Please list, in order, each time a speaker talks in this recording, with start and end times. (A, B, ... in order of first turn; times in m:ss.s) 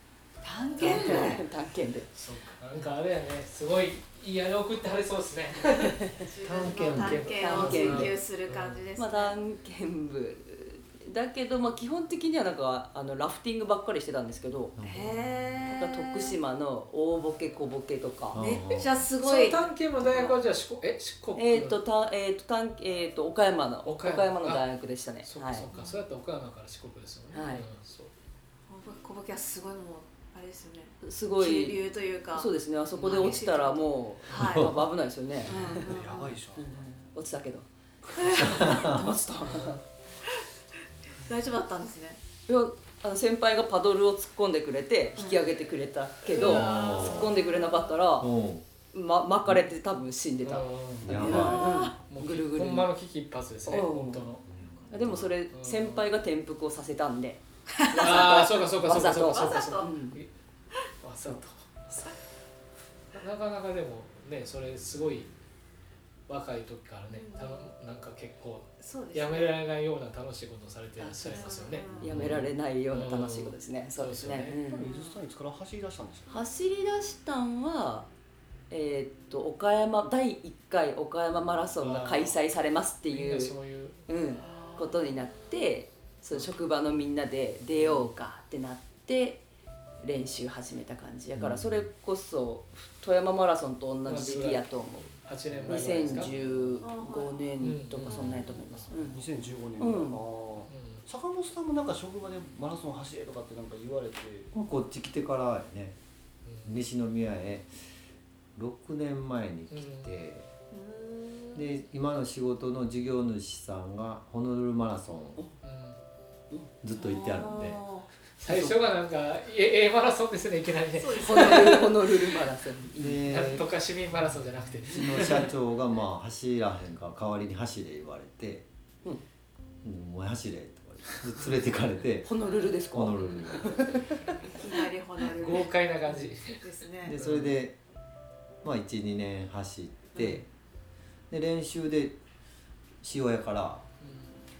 0:00.4-0:01.4 A
0:00.8-0:02.2 B
0:00.8-0:01.4 C
0:02.1-0:06.1 C
0:06.2-0:09.4 A
0:06.4-0:07.4 D
0:06.9-0:08.8 C
0:07.3-0:08.2 B
0:09.0-0:14.7 B
0:14.8-0:15.2 D
0:14.8-0:16.4 A
0:15.6-0:18.4 B
0:18.3-0:18.9 D
0:18.3-0:19.7 A
0:18.7-0:21.8 C
0:20.1-0:20.4 B
0:21.3-0:25.7 B
0:23.8-0:24.6 C
0:25.2-0:28.1 C
0:25.7-0:26.0 A
0:27.3-0:27.7 B
0:28.7-0:34.8 A
0:31.0-0:35.9 B
0:34.3-0:34.7 D
0:35.4-0:36.3 A
0:35.8-0:36.7 E
0:36.5-0:39.8 B
0:38.1-0:39.0 A
0:38.4-0:39.0 D
0:41.2-0:42.2 A
0:42.5-0:48.3 B
0:45.2-0:45.6 A
0:46.3-0:48.0 A
0:46.3-0:47.3 D
0:48.2-0:48.6 D
0:48.9-0:52.9 B
0:50.4-0:54.4 C
0:51.0-0:51.7 D
0:51.2-0:51.9 A
0:53.6-0:54.3 B
0:54.9-1:00.2 B
0:55.5-0:56.0 C
0:57.9-0:58.4 A
0:57.9-1:00.3 C
0:59.0-0:59.9 A
1:01.0-1:02.1 C
1:03.1-1:05.3 C
1:06.3-1:14.6 C
1:07.1-1:07.7 A
1:08.8-1:09.5 A
1:11.0-1:14.9 B
1:11.2-1:12.1 A
1:11.9-1:12.2 E
1:14.5-1:16.3 E
1:14.8-1:15.2 A
1:16.3-1:18.1 B
1:18.7-1:23.6 B
1:21.8-1:22.4 C
1:23.1-1:24.0 C
1:24.1-1:29.4 B
1:24.4-1:25.4 A
1:27.7-1:28.1 C
1:30.0-1:35.1 B
1:31.4-1:31.8 D
1:34.0-1:34.7 C
1:35.2-1:36.3 C
1:35.6-1:39.2 B
1:35.9-1:36.3 E
1:36.8-1:37.5 A
1:37.6-1:38.9 C
1:38.1-1:38.7 A
1:39.0-1:44.5 E
1:39.8-1:40.2 B
1:40.7-1:41.0 C
1:44.5-1:46.0 D
1:46.4-1:46.7 C
1:46.6-1:47.7 D
1:48.5-1:50.5 D
1:49.7-1:50.1 C
1:50.7-1:51.7 A
1:51.5-1:55.4 D
1:55.6-1:56.0 C
1:56.8-1:57.8 D
1:57.0-1:58.1 A
1:58.4-2:02.0 C
1:58.4-1:58.8 D
2:01.0-2:01.8 A
2:01.1-2:03.2 B
2:02.9-2:03.7 D
2:03.2-2:05.5 C
2:04.9-2:08.6 D
2:09.8-2:12.3 D
2:12.2-2:14.6 B
2:12.4-2:12.7 A
2:12.9-2:14.2 D
2:14.4-2:15.7 A
2:15.3-2:16.6 C
2:16.6-2:17.2 A
2:17.0-2:17.8 D
2:17.2-2:17.5 C
2:18.6-2:20.4 D
2:21.3-2:22.2 D
2:23.0-2:23.8 D
2:24.0-2:24.3 C